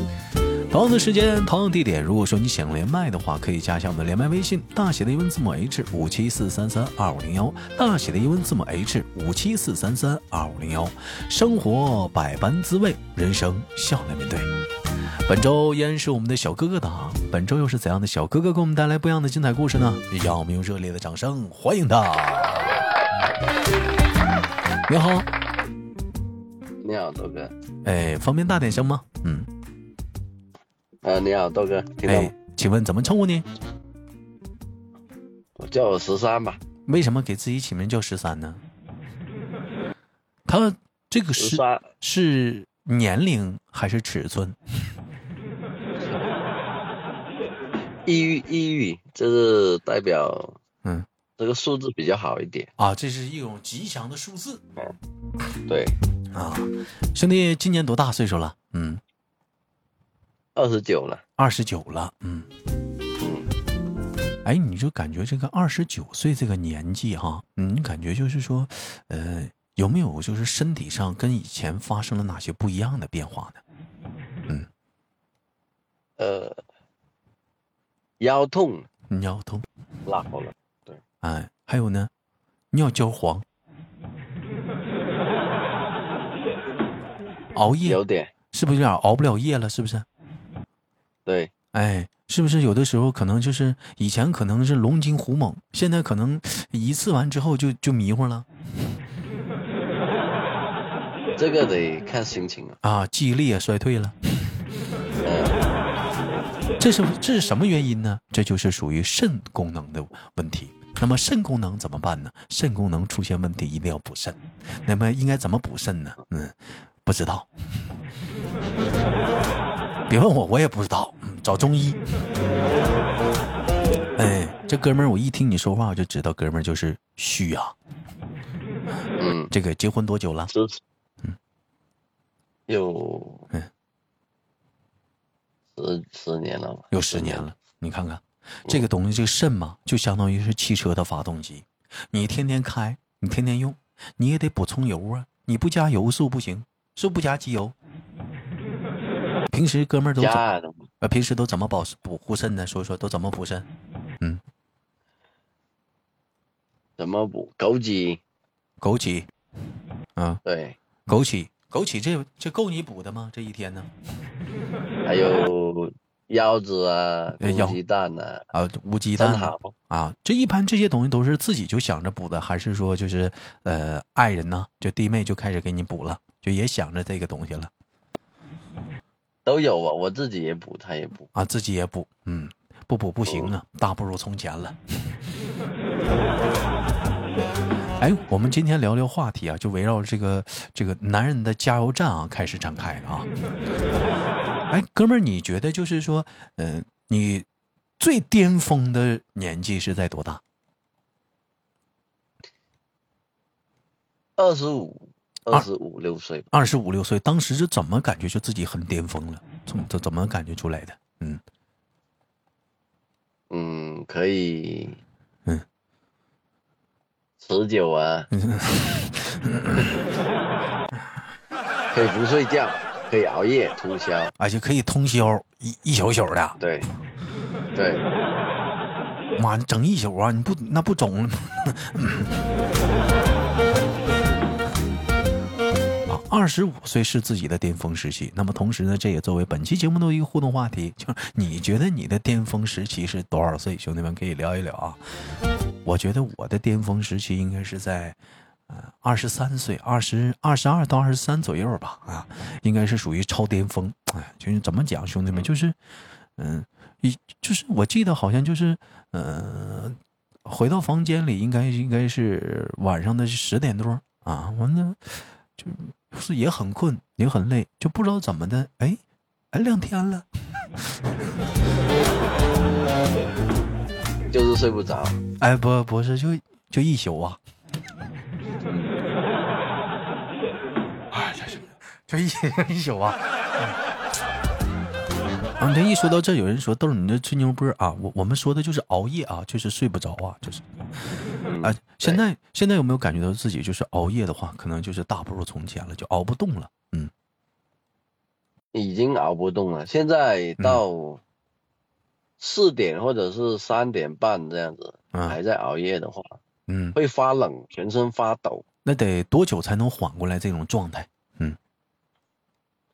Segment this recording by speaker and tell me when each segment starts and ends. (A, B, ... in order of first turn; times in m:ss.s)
0:00.7-0:14.5 A
0:15.3-0:22.8 A
0:24.9-0:25.3 A
0:26.8-0:27.5 B
0:27.8-0:29.5 A
0:31.0-0:32.3 B
0:32.1-0:33.5 A
0:35.6-0:36.6 B
0:36.9-0:38.6 A
0:40.5-0:44.6 A
0:41.4-0:41.9 B
0:48.1-0:50.6 B
0:51.4-0:52.7 B
0:52.8-0:54.6 A
0:55.7-0:56.0 B
0:56.3-0:59.0 A
1:00.6-1:01.2 B
1:01.4-1:02.5 A
1:03.2-1:03.5 B
1:04.4-1:13.6 A
1:16.2-1:16.6 B
1:18.2-1:18.9 B
1:19.1-1:19.7 A
1:20.1-1:21.0 B
1:21.2-1:22.1 A
1:22.7-1:23.4 A
1:27.6-1:28.0 A
1:27.8-1:28.3 B
1:28.5-1:30.1 A
1:31.3-1:31.5 B
1:31.7-1:38.5 A
1:41.4-1:42.8 B
1:42.8-1:44.6 A
1:45.2-1:45.6 B
1:46.8-1:57.5 A
2:00.1-2:02.0 A
2:04.2-2:07.8 A
2:09.2-2:09.5 B
2:09.3-2:10.5 A
2:10.5-2:10.8 B
2:12.7-2:13.5 B
2:15.8-2:17.4 B
2:16.9-2:27.8 A
2:29.5-2:30.4 A
2:30.2-2:30.9 B
2:31.0-2:33.7 A
2:37.0-2:38.2 B
2:38.8-2:39.3 A
2:40.2-2:40.4 A
2:40.4-2:40.8 B
2:41.1-2:43.9 A
2:45.0-2:48.5 B
2:47.4-2:47.8 A
2:48.5-2:57.7 A
2:49.2-2:49.7 B
2:59.5-3:01.3 B
3:01.3-3:05.2 A
3:03.3-3:03.5 B
3:08.0-3:13.3 A
3:14.7-3:17.5 A
3:18.0-3:20.4 A
3:24.4-3:26.5 B
3:26.5-3:31.4 A
3:33.5-3:35.0 B
3:37.4-3:38.3 B
3:38.3-3:40.0 A
3:41.9-3:44.3 B
3:44.4-3:46.6 A
3:46.6-3:46.9 B
3:47.8-3:48.0 B
3:49.4-3:52.4 A
3:56.1-4:05.0 A
4:05.8-4:15.8 A
4:16.4-4:29.0 A
4:29.5-4:30.3 A
4:34.3-4:35.2 B
4:35.4-4:37.4 A
4:38.6-4:39.0 B
4:41.1-4:43.7 A
4:45.6-4:50.6 A
4:51.4-4:52.2 B
4:51.6-4:57.1 A
4:58.7-5:01.2 B
5:02.4-5:06.4 B
5:05.1-5:05.4 A
5:06.7-5:07.0 A
5:07.0-5:08.6 B
5:08.8-5:11.6 A